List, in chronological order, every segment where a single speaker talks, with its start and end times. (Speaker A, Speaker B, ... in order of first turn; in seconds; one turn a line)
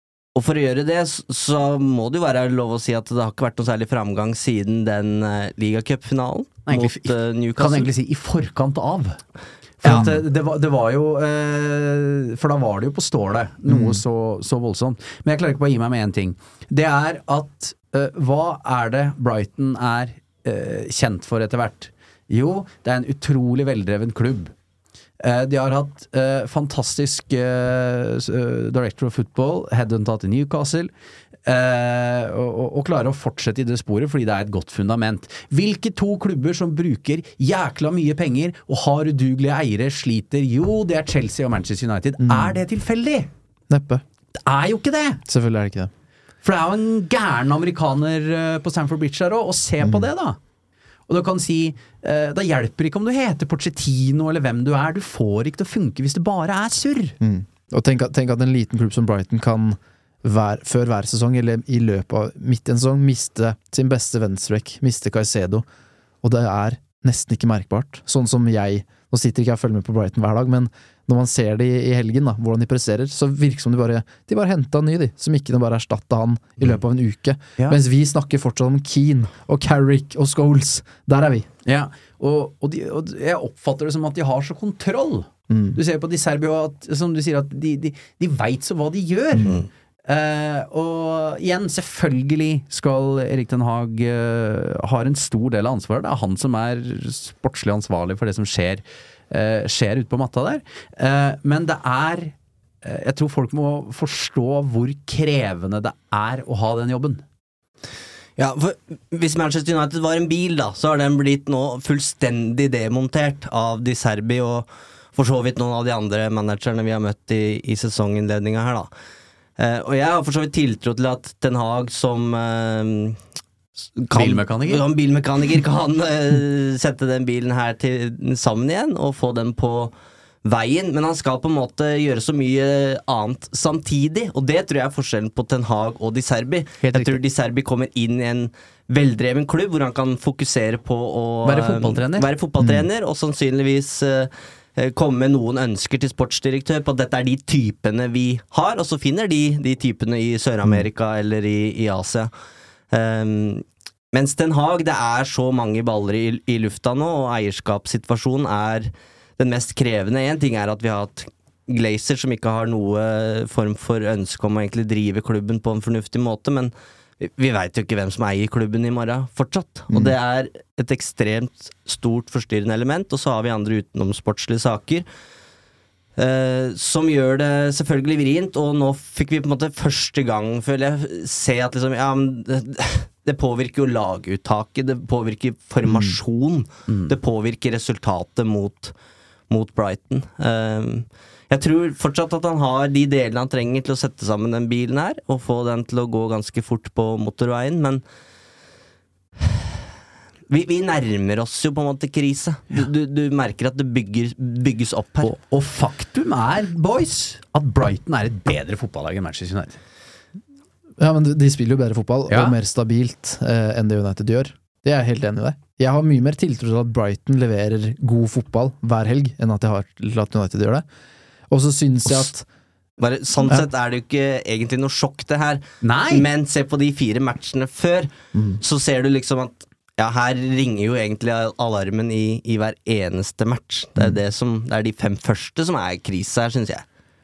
Speaker A: 0.3-7.9
Speaker B: 6.7-9.2
Speaker B: 9.8-24.5
Speaker C: 9.8-10.2
Speaker C: 13.7-14.0
Speaker B: 25.2-30.9
Speaker B: 31.5-43.3
Speaker C: 42.2-42.6
Speaker C: 43.7-44.0
Speaker B: 44.5-45.2
Speaker C: 45.3-45.9
Speaker B: 46.4-50.4
Speaker C: 49.8-50.1
Speaker B: 51.1-57.2
Speaker C: 57.2-65.7
Speaker C: 66.2-81.5
Speaker B: 81.7-89.6
Speaker C: 85.5-85.8
Speaker B: 90.1-107.2
Speaker A: 108.4-118.9
Speaker A: 119.6-123.2
Speaker A: 124.0-129.9
Speaker B: 124.1-124.8
Speaker A: 130.4-152.3
Speaker B: 136.8-137.2
Speaker B: 141.4-142.3
Speaker C: 142.6-142.9
Speaker A: 152.9-175.1
Speaker A: 176.2-188.9
Speaker C: 185.9-186.2
Speaker B: 186.9-187.1
Speaker A: 189.5-198.0
Speaker A: 200.5-205.3
Speaker B: 205.2-209.8
Speaker C: 211.0-220.8
Speaker B: 212.3-212.6
Speaker C: 221.5-222.5
Speaker A: 223.0-228.1
Speaker B: 225.8-226.3
Speaker C: 228.3-228.6
Speaker A: 228.6-236.9